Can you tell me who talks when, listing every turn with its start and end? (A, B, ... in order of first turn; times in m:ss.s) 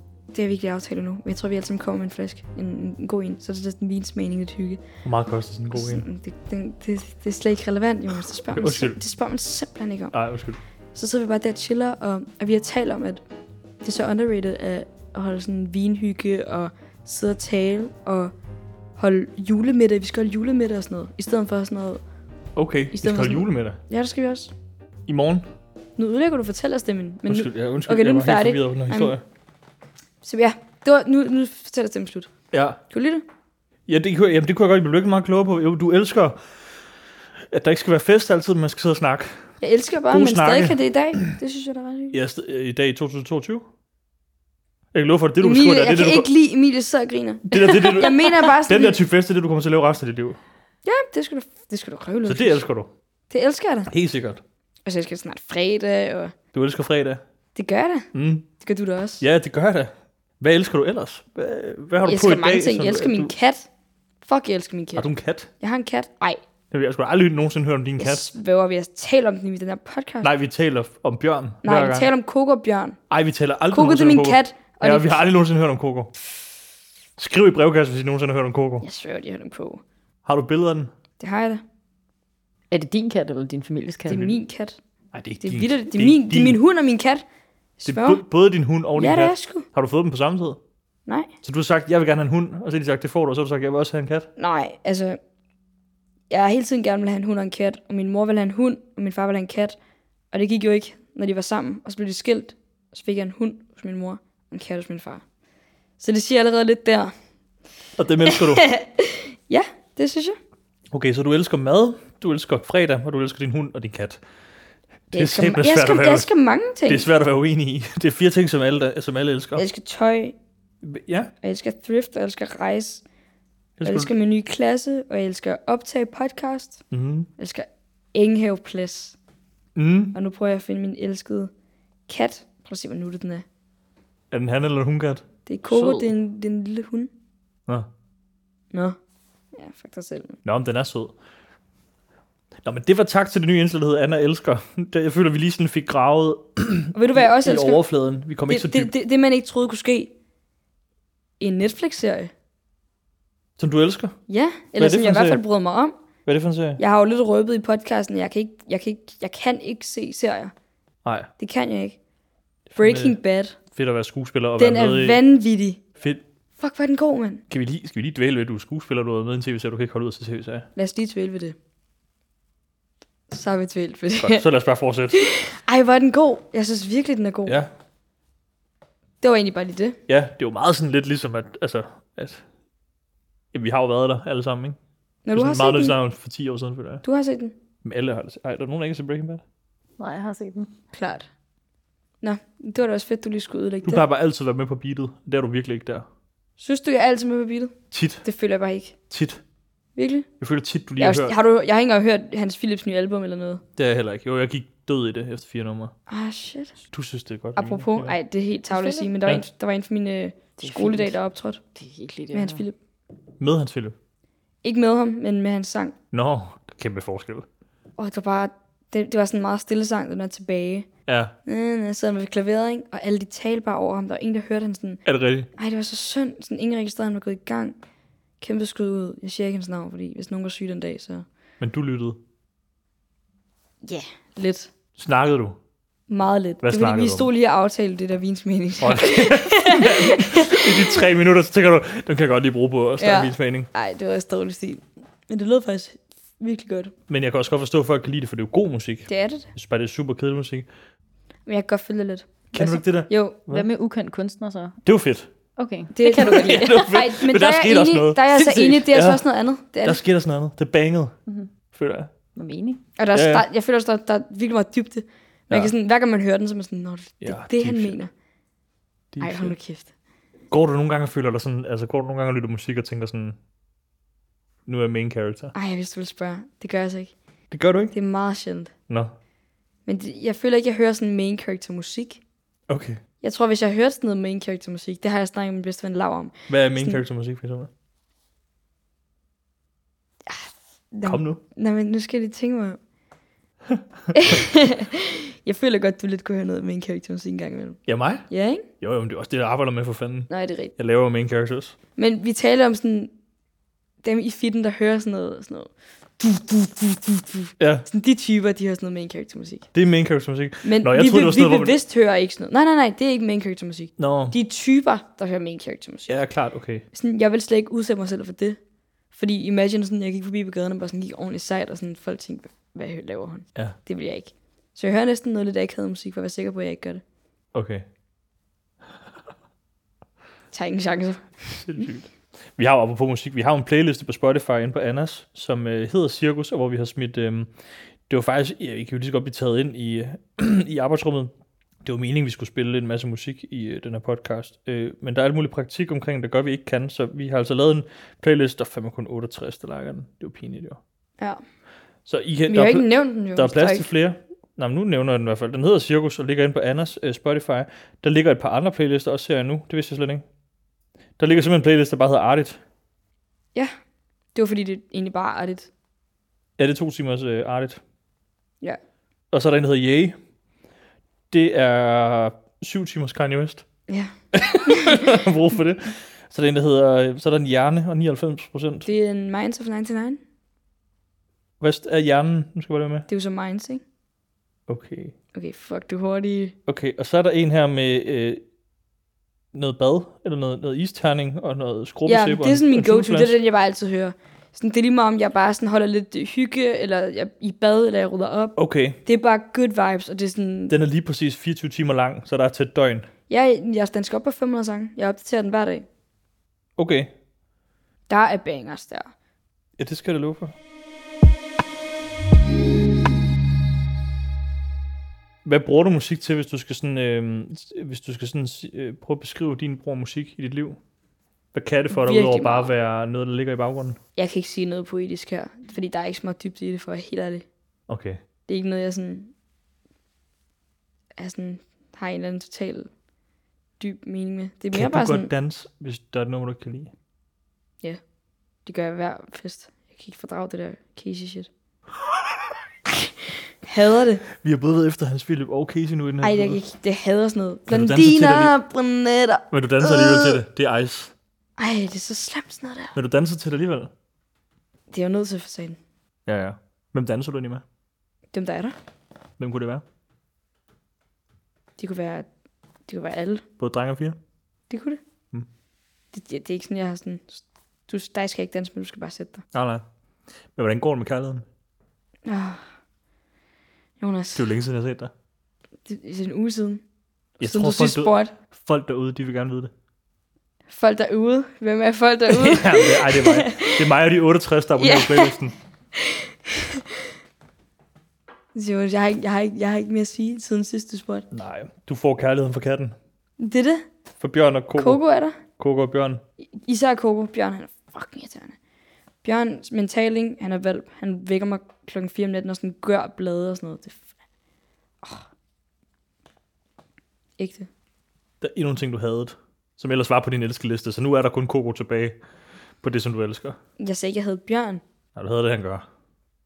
0:00.3-0:04.8 A
0:05.0-0:06.0 B
0:05.7-0:10.1 A
0:08.5-0:09.0 B
0:10.1-0:10.6 B
0:11.0-0:13.2 A
0:13.8-0:18.3 A
0:19.0-0:22.0 A
0:22.6-0:23.8 B
0:22.9-0:24.5 A
0:25.1-0:25.5 B
0:26.0-0:29.2 A
0:27.3-0:29.2 B
0:30.2-0:32.3 A
0:32.5-0:32.8 B
0:32.9-0:33.2 A
0:33.9-0:36.4 B
0:37.5-0:39.5 B
0:39.6-0:42.2 A
0:40.1-0:41.3 B
0:42.1-0:43.6 B
0:44.9-0:46.3 B
0:45.4-0:49.0 A
0:47.5-0:50.4 B
0:50.8-0:52.6 A
0:52.3-0:52.9 B
0:53.3-0:53.9 A
0:53.9-0:54.4 B
0:54.9-0:56.4 A
0:56.5-0:57.2 B
0:57.6-0:58.1 A
0:58.1-0:58.5 B
0:58.6-0:59.2 A
0:59.2-1:03.3 B
1:02.0-1:03.7 A
1:04.2-1:05.1 A
1:05.0-1:05.5 B
1:05.6-1:06.4 A
1:06.7-1:08.3 B
1:08.0-1:10.3 A
1:10.2-1:12.1 B
1:11.6-1:13.0 A
1:13.1-1:16.1 B
1:13.7-1:15.2 A
1:17.2-1:18.8 B
1:18.8-1:19.8 A
1:20.2-1:20.9 B
1:21.2-1:21.6 A
1:22.7-1:24.4 C
1:24.1-1:24.8 A
1:25.1-1:26.6 B
1:25.4-1:27.2 A
1:27.8-1:28.2 A
1:27.8-1:30.6 B
1:29.0-1:29.7 A
1:31.4-1:34.3 B
1:34.4-1:35.2 A
1:36.3-1:39.8 A
1:40.3-1:45.2 A
1:46.0-1:47.1 A
1:48.0-1:48.7 B
1:48.2-1:50.4 A
1:50.9-1:54.2 B
1:55.1-1:56.3 B
1:55.1-1:57.1 A
1:56.9-1:59.6 B
1:59.6-2:00.4 A
2:00.8-2:01.3 B
2:01.4-2:03.0 A
2:03.8-2:04.1 B
2:03.8-2:06.8 A
2:06.9-2:07.3 B
2:07.4-2:09.2 A
2:09.8-2:10.2 B
2:10.2-2:11.5 A
2:12.1-2:13.4 A
2:14.3-2:16.1 B
2:15.5-2:17.1 A
2:19.6-2:20.4 A
2:20.4-2:21.2 B
2:22.6-2:28.9 B
2:27.0-2:27.8 A
2:28.5-2:30.1 A
2:31.4-2:32.3 A
2:33.6-2:34.2 B
2:34.3-2:35.9 A
2:34.8-2:35.4 B
2:36.3-2:36.8 B
2:36.8-2:40.5 A
2:41.0-2:41.3 B
2:41.4-2:42.0 A
2:42.7-2:43.2 B
2:42.8-2:43.6 A
2:43.7-2:45.2 B
2:44.6-2:45.8 A
2:46.6-2:47.4 A
2:47.5-2:50.7 B
2:50.8-2:51.6 A
2:53.3-2:54.4 A
2:54.2-2:55.3 B
2:55.1-2:57.6 A
2:59.2-3:00.0 A
3:00.1-3:02.4 B
3:03.5-3:04.8 B
3:05.2-3:06.0 A
3:05.3-3:07.0 B
3:07.0-3:07.6 A
3:07.8-3:09.4 B
3:10.0-3:10.7 C
3:10.9-3:11.3 A
3:12.2-3:14.0 A
3:13.8-3:16.1 B
3:16.6-3:19.0 A
3:17.9-3:18.2 B
3:19.1-3:19.4 B
3:20.0-3:20.3 A
3:20.4-3:21.4 B
3:21.0-3:23.6 A
3:23.8-3:25.9 B
3:26.1-3:26.8 A
3:26.8-3:28.2 B
3:27.6-3:31.6 A
3:28.7-3:29.1 C
3:30.6-3:31.2 C
3:31.8-3:32.6 C
3:32.3-3:32.8 A
3:33.4-3:34.0 B
3:34.6-3:36.0 A
3:36.1-3:37.5 B
3:38.0-3:40.9 A
3:41.1-3:41.4 B
3:41.5-3:45.0 A
3:45.0-3:45.5 B
3:45.6-3:47.8 A
3:48.4-3:51.3 A
3:51.6-3:52.2 B
3:53.8-3:54.7 A
3:55.0-3:55.6 B
3:56.1-4:01.0 A
3:56.6-3:57.3 B
3:58.8-4:03.7 B
4:03.0-4:06.9 A
4:07.1-4:10.7 B
4:09.1-4:09.5 A
4:11.5-4:12.5 A
4:12.5-4:13.7 B
4:13.1-4:13.4 A
4:13.5-4:14.8 C
4:14.8-4:15.3 B
4:15.6-4:16.8 C
4:16.0-4:20.0 A
4:16.2-4:19.2 B
4:19.8-4:21.2 B
4:21.7-4:22.1 B
4:22.4-4:22.8 C
4:23.0-4:28.1 A
4:23.1-4:23.4 B
4:27.2-4:28.0 B
4:29.1-4:29.6 B
4:29.2-4:29.9 A
4:30.5-4:33.4 B
4:34.7-4:35.6 B
4:35.5-4:37.1 A
4:37.5-4:38.0 B
4:37.9-4:38.7 A
4:39.9-4:42.2 A
4:42.7-4:43.0 B
4:43.2-4:47.0 A
4:46.5-4:47.7 B
4:50.3-4:52.8 A
4:51.0-4:51.4 B
4:53.7-4:54.4 B
4:54.1-4:58.7 A
4:57.9-4:58.3 B
4:58.8-5:01.8 B
5:00.3-5:00.7 A
5:02.0-5:03.1 A
5:04.0-5:09.7 A
5:07.6-5:07.9 B
5:09.7-5:11.8 B
5:10.6-5:16.1 A
5:14.0-5:14.4 B
5:16.1-5:16.8 B
5:16.9-5:18.6 A
5:19.1-5:27.0 A
5:27.6-5:27.9 B
5:30.5-5:31.8 A
5:31.5-5:37.5 B
5:38.1-5:41.3 B
5:41.8-5:50.8 B
5:52.1-6:00.2 B
5:52.5-5:53.9 A
6:01.2-6:02.6 B
6:04.4-6:05.7 A
6:06.6-6:07.8 B
6:09.3-6:10.2 B
6:11.3-6:13.6 B
6:13.9-6:15.2 A
6:14.3-6:18.9 B
6:18.9-6:20.2 A
6:21.6-6:23.1 B
6:23.1-6:23.8 A
6:24.7-6:25.2 B
6:25.3-6:26.6 A
6:26.7-6:28.4 B
6:29.5-6:33.4 B
6:32.1-6:40.8 A
6:38.6-6:39.0 B
6:40.7-6:43.1 B
6:43.3-6:45.9 A
6:46.8-6:47.1 B
6:48.1-6:49.1 A
6:49.8-6:50.6 B
6:55.4-7:00.8 B
7:01.5-7:04.0 B
7:01.9-7:02.7 A
7:04.2-7:07.5 A
7:07.9-7:08.2 B
7:08.5-7:09.3 A
7:11.2-7:12.9 A
7:13.8-7:15.3 A
7:14.7-7:16.9 B
7:18.7-7:21.5 A
7:22.9-7:24.2 A
7:24.3-7:26.6 B
7:26.2-7:30.4 A
7:27.7-7:28.6 B
7:29.5-7:31.1 B
7:31.6-7:32.9 A
7:32.9-7:33.9 B
7:34.9-7:35.8 A
7:36.3-7:37.6 B
7:38.3-7:38.8 A
7:39.4-7:39.8 B
7:41.8-7:42.3 A
7:42.9-7:43.4 A
7:43.6-7:44.2 B
7:44.7-7:45.0 A
7:46.1-7:49.4 A
7:49.5-7:49.8 B
7:50.6-7:51.5 B
7:52.2-7:52.6 A
7:54.0-7:54.5 A
7:54.3-7:55.1 B
7:55.9-7:56.8 A
7:57.4-7:58.3 A
7:57.4-7:59.7 B
8:00.7-8:03.9 A
8:02.3-8:05.5 B
8:04.8-8:05.4 A
8:06.0-8:07.0 A
8:08.6-8:11.3 A
8:11.3-8:13.0 B
8:13.4-8:13.9 A
8:14.2-8:15.0 B
8:14.8-8:15.4 A
8:15.6-8:16.2 B
8:16.6-8:18.6 A
8:19.2-8:24.0 A
8:27.4-8:27.7 A
8:28.4-8:32.2 B
8:32.8-8:33.6 B
8:33.8-8:34.8 A
8:35.2-8:35.9 B